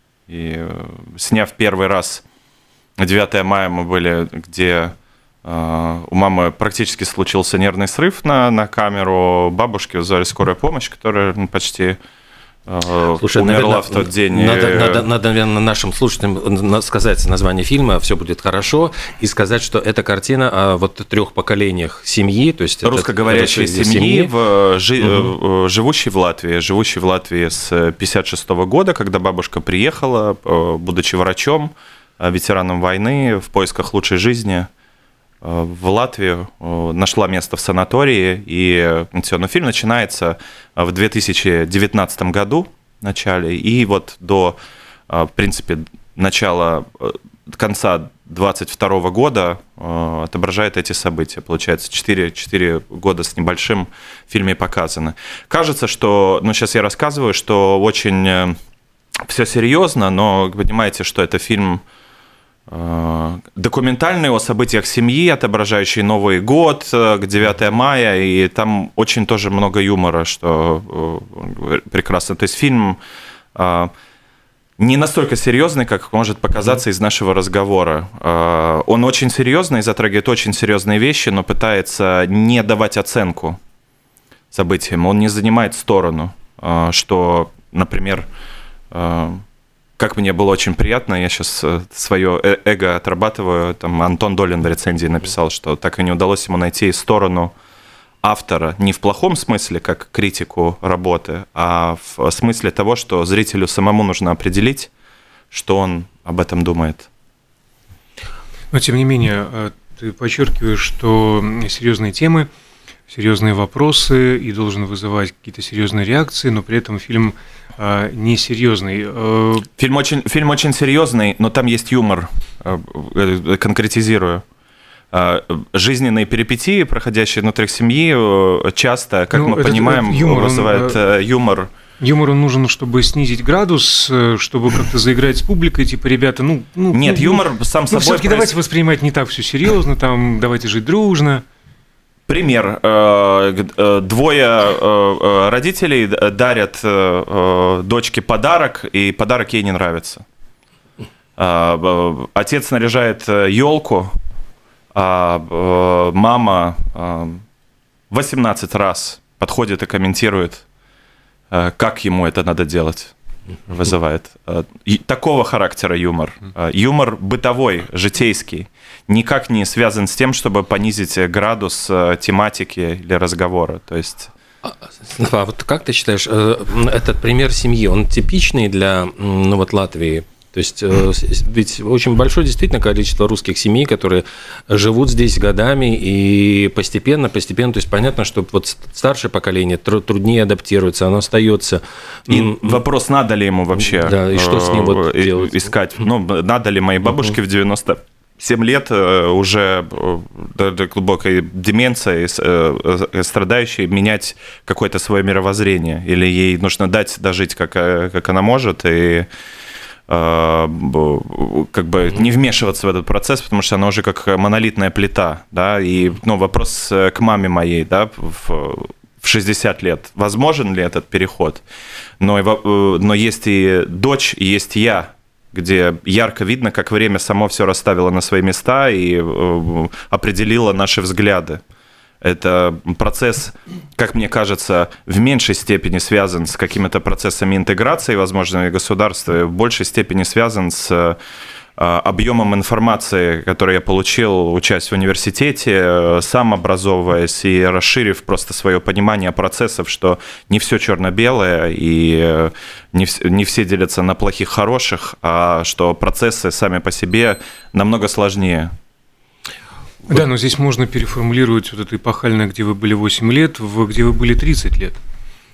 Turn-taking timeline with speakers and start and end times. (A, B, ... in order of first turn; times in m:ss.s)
0:00.3-0:02.2 A
0:03.0-0:12.0 A
0:12.7-0:15.0 A
0:13.2-0:24.3 B
0:22.8-0:34.7 A
0:35.4-0:44.6 A
0:45.1-0:58.6 A
0:59.2-1:01.8 A
1:02.7-1:13.0 A
1:13.5-1:13.9 A
1:14.8-1:23.6 A
1:24.5-1:28.3 A
1:28.9-1:29.4 A
1:30.0-1:37.5 A
1:38.2-1:44.9 A
1:45.5-1:47.1 A
1:48.7-1:52.5 C
1:53.1-1:59.7 C
1:59.8-2:04.4 A
2:05.1-2:11.7 A
2:09.3-2:11.0 C
2:12.0-2:21.4 C
2:16.9-2:18.5 A
2:22.3-2:30.2 A
2:31.4-2:34.2 A
2:34.9-2:37.4 A
2:38.1-2:40.6 A
2:41.5-2:43.1 A
2:43.7-2:54.3 A
2:54.6-3:12.8 B
3:12.3-3:29.3 A
3:13.8-3:15.7 B
3:30.1-3:41.6 A
3:42.2-3:51.6 A
3:52.2-4:01.2 A
4:01.8-4:18.7 A
4:20.1-4:25.0 C